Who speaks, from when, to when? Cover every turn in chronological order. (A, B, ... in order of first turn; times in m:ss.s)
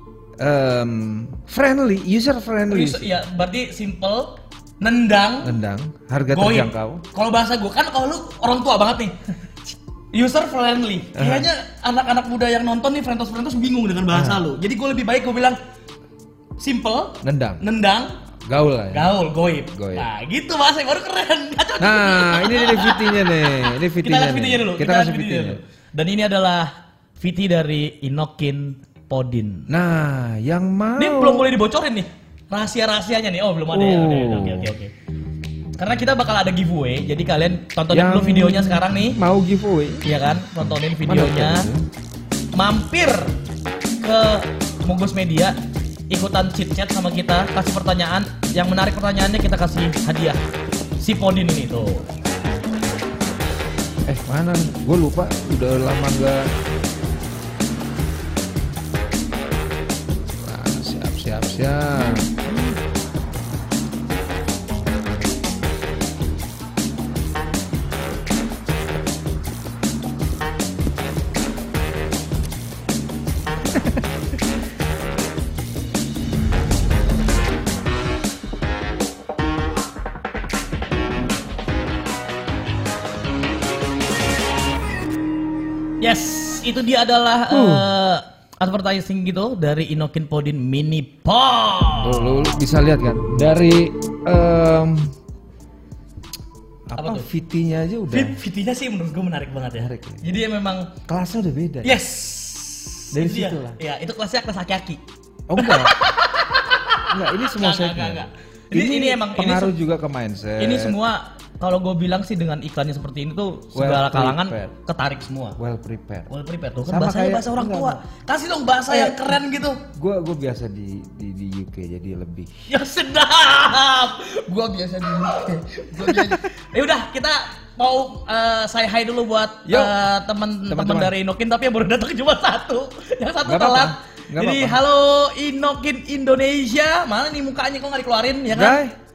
0:00.4-0:03.1 A
0:02.7-0:05.6 B
0:05.4-0:07.0 A
0:06.3-0:09.2 B
0:10.1-0:15.6 B
0:11.1-0:11.5 A
0:14.1-0:14.4 A
0:16.6-0:18.1 B
0:17.2-0:17.6 A
0:18.5-0:19.1 A
0:18.9-0:29.7 B
0:19.7-0:20.1 A
0:21.8-0:25.6 A
0:29.7-0:31.5 A
0:31.0-0:34.9 B
0:33.7-0:34.7 A
0:35.8-0:39.2 B
0:37.9-0:41.8 A
0:40.0-0:41.7 B
0:42.5-0:43.3 B
0:44.0-0:45.6 B
0:46.1-0:50.4 B
0:51.0-0:52.1 B
0:54.0-0:56.5 A
1:00.3-1:02.5 A
1:26.0-1:32.5 B
1:27.5-1:27.9 A
1:32.0-1:35.1 A
1:36.9-1:38.4 A
1:37.0-1:37.3 B
1:38.1-1:40.9 B
1:39.8-1:40.2 A
1:41.1-1:42.0 A
1:41.8-1:45.0 B
1:43.1-1:43.8 A
1:45.5-1:46.0 A
1:45.6-1:49.7 B
1:47.1-1:51.0 A
1:50.6-1:55.6 B
1:53.7-1:54.7 A
1:55.6-1:56.3 A
1:56.3-1:59.8 B
1:56.9-1:58.0 A
1:58.9-2:02.5 A
2:02.7-2:18.8 B
2:06.0-2:06.4 A
2:09.7-2:10.1 A
2:10.6-2:11.1 A
2:13.4-2:14.8 A
2:18.5-2:19.0 A